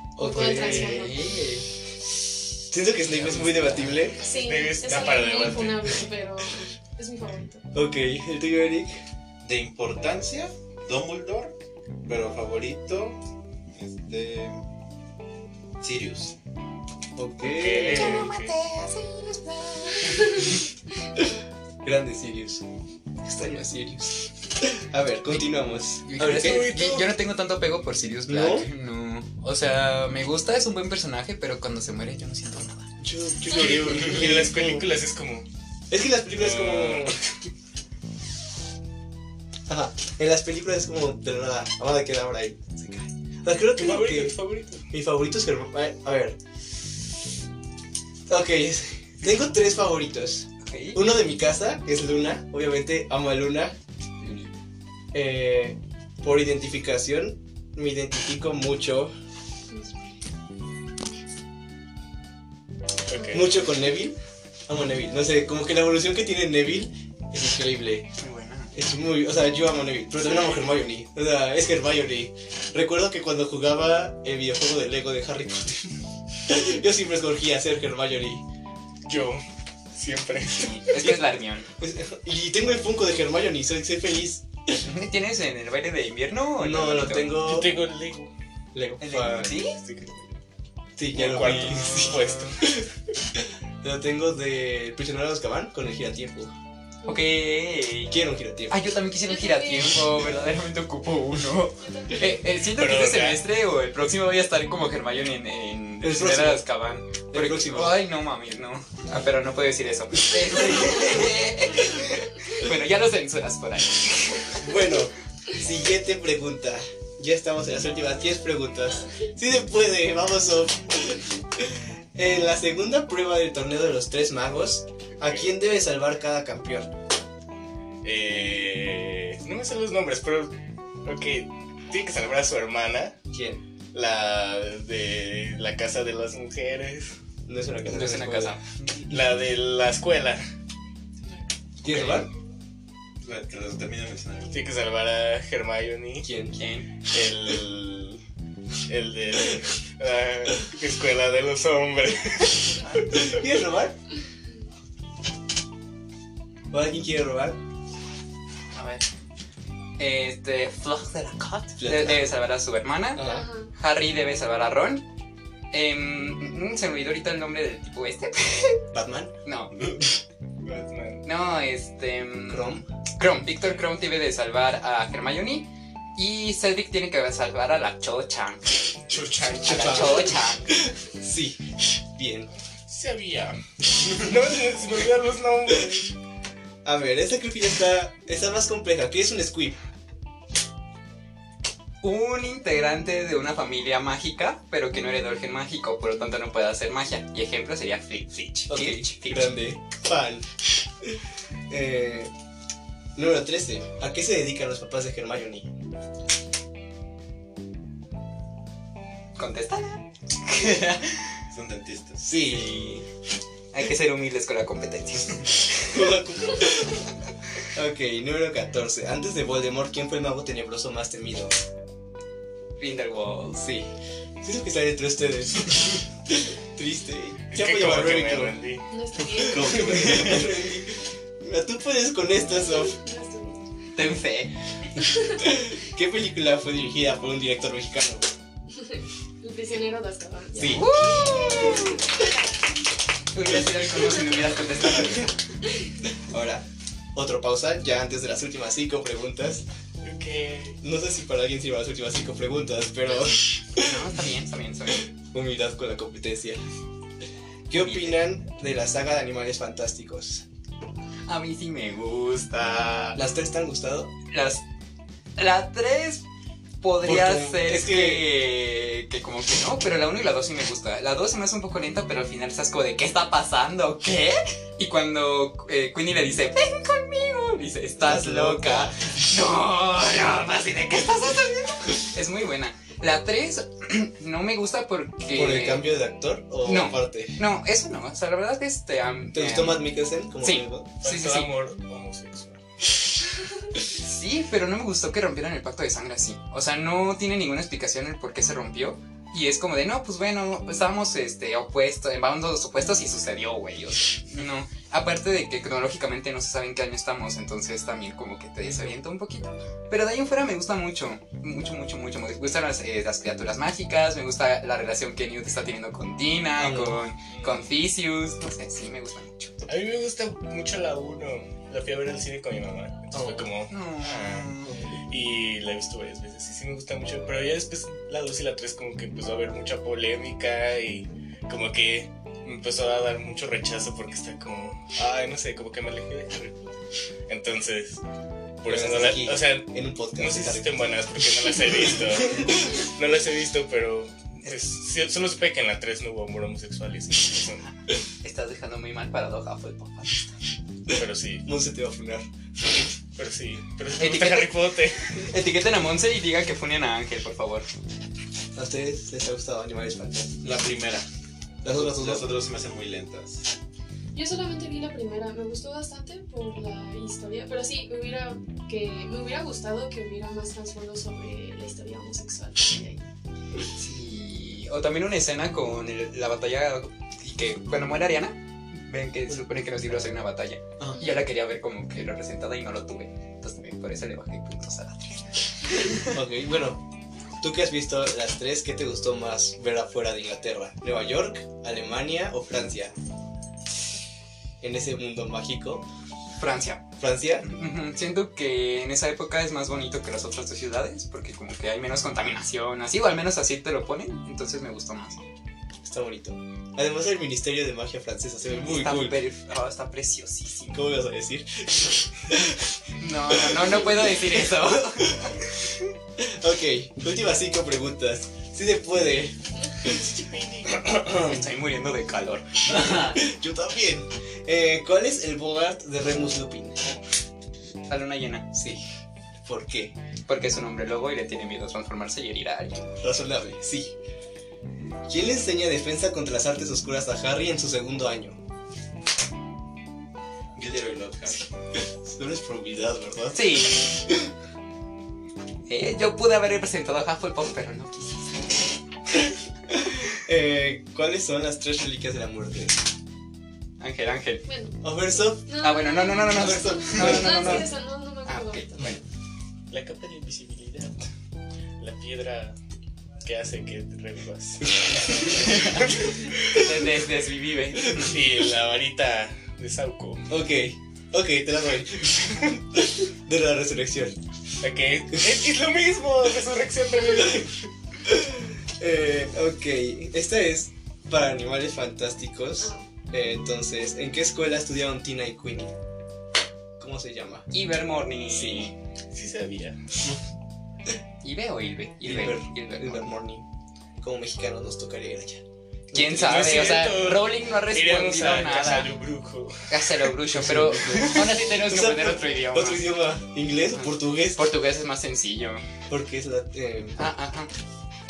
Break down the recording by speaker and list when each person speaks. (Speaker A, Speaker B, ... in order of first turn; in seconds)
Speaker A: 0.2-1.1, 2.7-4.2, 7.7-8.9, 17.1-18.4, 21.8-22.6, 23.2-26.7, 28.3-28.7, 33.0-34.9, 35.9-37.2, 39.7-44.4, 44.9-46.4, 48.3-54.4, 55.1-59.1, 63.3-68.1, 68.7-78.4, 81.0-84.7, 86.6-87.7, 88.7-89.6, 91.0-96.5, 98.1-98.8, 106.0-106.6, 107.3-108.0, 110.6-111.0, 114.6-126.9, 133.3-133.6, 137.5-138.6, 141.8-142.3, 146.2-146.6, 153.1-153.9, 156.7-157.6, 161.8-162.3, 163.1-163.4, 168.9-169.3, 172.5-172.8, 179.6-182.5, 186.8-189.8, 198.7-200.5, 201.7-202.3, 203.2-205.7, 212.2-212.8, 215.9-217.1, 217.7-221.5, 223.6-223.9, 224.4-228.7, 229.4-233.0, 235.4-238.2, 240.5-241.2, 245.0-245.2, 246.1-246.6, 247.1-249.6, 250.8-254.1, 255.0-256.6, 257.7-260.4, 263.1-264.1, 267.0-268.2, 278.0-279.0, 285.3-287.4, 289.3-290.9, 308.6-308.9, 316.6-317.0, 323.1-323.5, 324.6-325.0, 338.7-340.8, 342.2-342.7, 350.9-352.2, 358.6-360.6, 361.6-362.3, 386.0-386.8, 387.4-392.9, 394.6-395.9, 397.0-397.5, 405.8-409.2, 410.7-415.4, 416.2-420.1, 420.6-421.4, 422.7-426.8, 428.5-428.8, 429.4-429.9, 432.9-433.9, 435.1-438.4, 441.7-444.3, 449.7-452.8, 454.8-455.4, 456.2-457.7, 470.3-474.1, 478.0-485.7, 486.8-487.5, 488.3-488.7, 492.0-493.5, 494.0-496.5, 500.3-504.4, 505.9-507.0
Speaker B: 0.2-1.3, 4.2-7.6, 20.1-20.6, 59.7-60.2, 63.1-63.4, 99.2-100.3, 101.8-102.4, 163.2-163.7, 228.9-230.2, 232.6-233.6, 235.0-235.4, 238.7-242.3, 364.1-373.0, 454.4-459.0
Speaker C: 0.2-1.6, 3.1-4.1, 18.2-20.2, 26.1-32.9, 50.6-51.0, 68.2-68.7, 80.6-81.7, 84.8-87.4, 89.0-89.8, 91.2-92.3, 97.0-98.2, 98.7-114.6, 137.9-139.1, 146.5-146.9, 158.7-159.0, 160.0-163.2, 163.7-165.0, 165.7-168.8, 169.4-170.0, 171.2-178.8, 179.6-180.8, 192.0-199.6, 209.4-211.3, 212.4-213.0, 213.7-216.1, 222.8-223.7, 230.1-230.4, 233.9-234.5, 240.7-242.1, 243.3-245.3, 253.7-255.1, 257.8-258.2, 261.3-263.2, 264.3-264.6, 265.4-266.2, 266.8-285.9, 286.6-291.5, 293.9-319.7, 323.7-324.7, 348.2-350.3, 354.0-354.6, 355.1-357.7, 373.7-386.0, 396.4-396.9, 397.4-405.2, 408.6-410.9, 413.0-415.7, 420.9-423.3, 427.9-428.6, 430.3-432.9, 443.3-444.0, 445.7-448.5, 453.8-454.4, 455.6-459.0, 465.2-468.1, 487.5-488.7, 491.2-493.1, 495.9-498.9, 499.7-502.9, 503.7-505.6, 507.0-507.5
Speaker D: 4.3-6.1, 17.4-18.6, 26.2-27.1, 33.4-35.5, 36.3-37.2, 43.7-44.9, 63.1-63.8, 79.0-80.8, 87.3-88.3, 89.8-90.3, 91.1-92.7, 102.8-103.4, 125.2-125.5, 128.0-133.2, 133.9-137.1, 139.1-140.4, 144.5-146.3, 147.1-148.2, 148.8-153.4, 170.6-171.2, 179.1-180.2, 182.9-186.1, 227.5-228.9, 250.0-250.8, 291.0-292.6, 317.3-317.7, 319.6-324.5, 325.1-336.8, 337.3-338.0, 338.6-347.6, 350.9-351.5, 353.1-355.3, 459.7-461.1, 461.8-462.6, 463.2-466.7, 467.9-470.3, 474.6-477.6, 489.1-489.8, 496.1-500.1
Speaker E: 9.4-14.6, 15.8-16.3, 141.2-142.2, 143.2-144.6, 211.5-212.3, 229.4-230.6, 360.4-361.1, 361.7-363.5, 440.6-441.5